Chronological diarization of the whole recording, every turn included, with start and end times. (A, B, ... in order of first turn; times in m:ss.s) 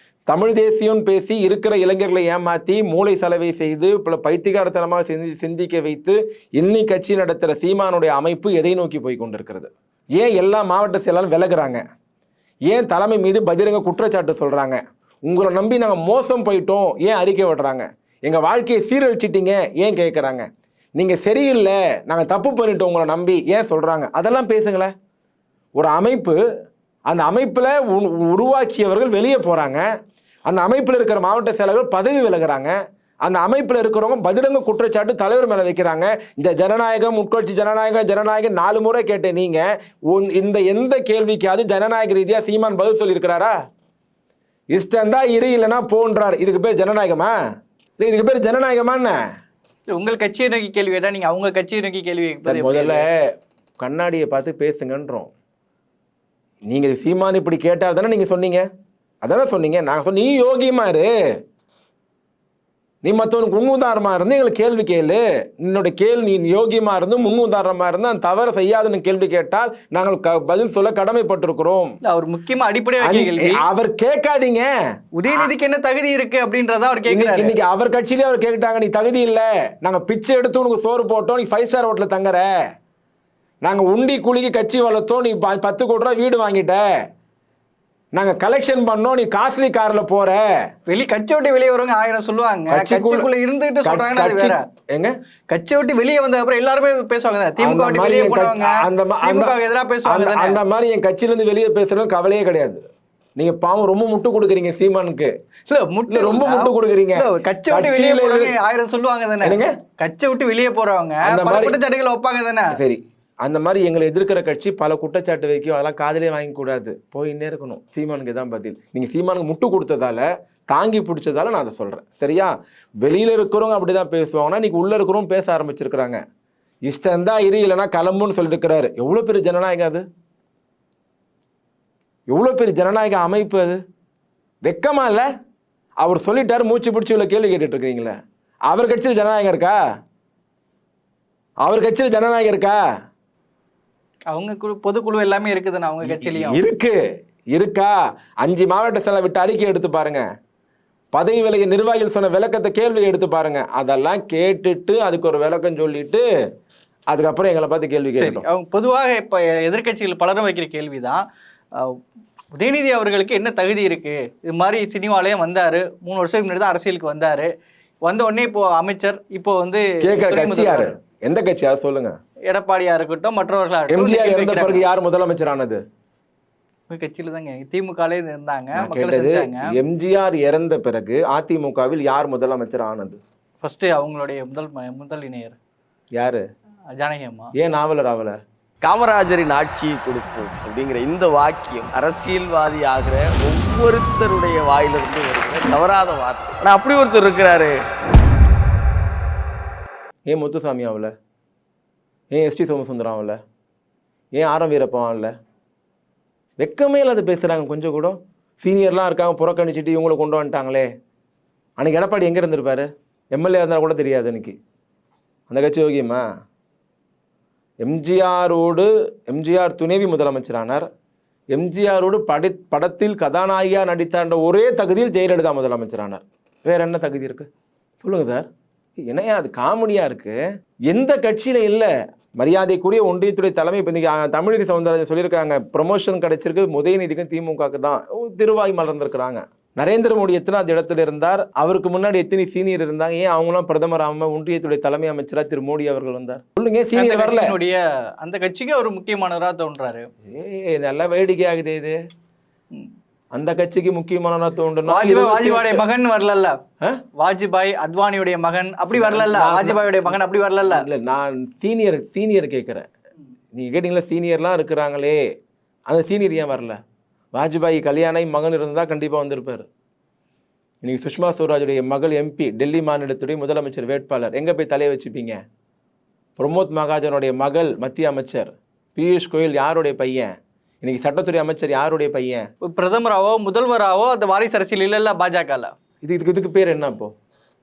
0:00.3-0:11.8 A
0:12.7-0:24.9 A
0:25.8-0:26.4 A
0:27.1-0:29.9 A
0:30.5-0:43.5 A
0:44.7-0:47.3 A
0:48.0-0:49.2 A
0:49.9-0:53.0 B
0:52.4-0:55.3 A
0:56.7-0:58.7 A
0:59.2-1:01.4 A
1:03.0-1:12.0 A
1:12.0-1:13.6 B
1:13.0-1:14.7 A
1:15.2-1:17.6 B
1:15.2-1:15.5 A
1:17.1-1:22.5 A
1:23.6-1:27.0 A
1:28.1-1:30.5 A
1:30.9-1:34.6 B
1:32.7-1:33.3 A
1:33.8-1:35.2 A
1:35.5-1:40.6 B
1:37.6-1:39.5 A
1:40.0-1:42.8 A
1:43.4-1:45.3 A
1:45.7-1:52.8 B
1:46.1-1:48.6 A
1:49.4-1:49.8 A
1:51.2-1:51.8 A
1:52.7-2:06.2 A
2:06.9-2:10.0 A
2:12.3-2:13.8 A
2:14.6-2:15.3 A
2:16.0-2:18.1 A
2:18.7-2:19.8 A
2:21.6-2:22.8 A
2:24.3-2:26.6 B
2:26.0-2:27.0 A
2:27.5-2:30.2 A
2:31.1-2:36.2 A
2:37.1-2:38.4 A
2:38.2-2:42.0 B
2:42.5-2:47.5 B
2:48.0-2:51.0 B
2:50.0-2:52.2 A
2:52.5-2:54.8 B
2:53.9-2:55.8 A
2:56.9-2:59.8 B
2:58.8-3:03.2 A
3:03.6-3:05.6 B
3:06.1-3:06.4 A
3:07.0-3:07.5 B
3:07.6-3:08.4 A
3:08.8-3:17.8 C
3:20.3-3:21.1 A
3:22.3-3:23.4 A
3:24.4-3:25.3 A
3:26.6-3:30.9 A
3:31.8-3:34.6 A
3:35.5-3:36.2 A
3:37.8-3:40.9 A
3:41.5-3:47.5 A
3:48.0-3:50.4 A
3:50.9-4:07.5 A
4:06.9-4:10.1 B
4:10.2-4:12.0 A
4:13.3-4:15.8 A
4:14.9-4:16.6 B
4:17.2-4:20.9 B
4:18.9-4:22.9 A
4:23.5-4:25.2 A
4:25.9-4:26.8 A
4:27.4-4:29.7 A
4:30.8-4:35.4 A
4:36.4-4:42.4 A
4:42.6-4:45.7 B
4:46.0-4:47.1 A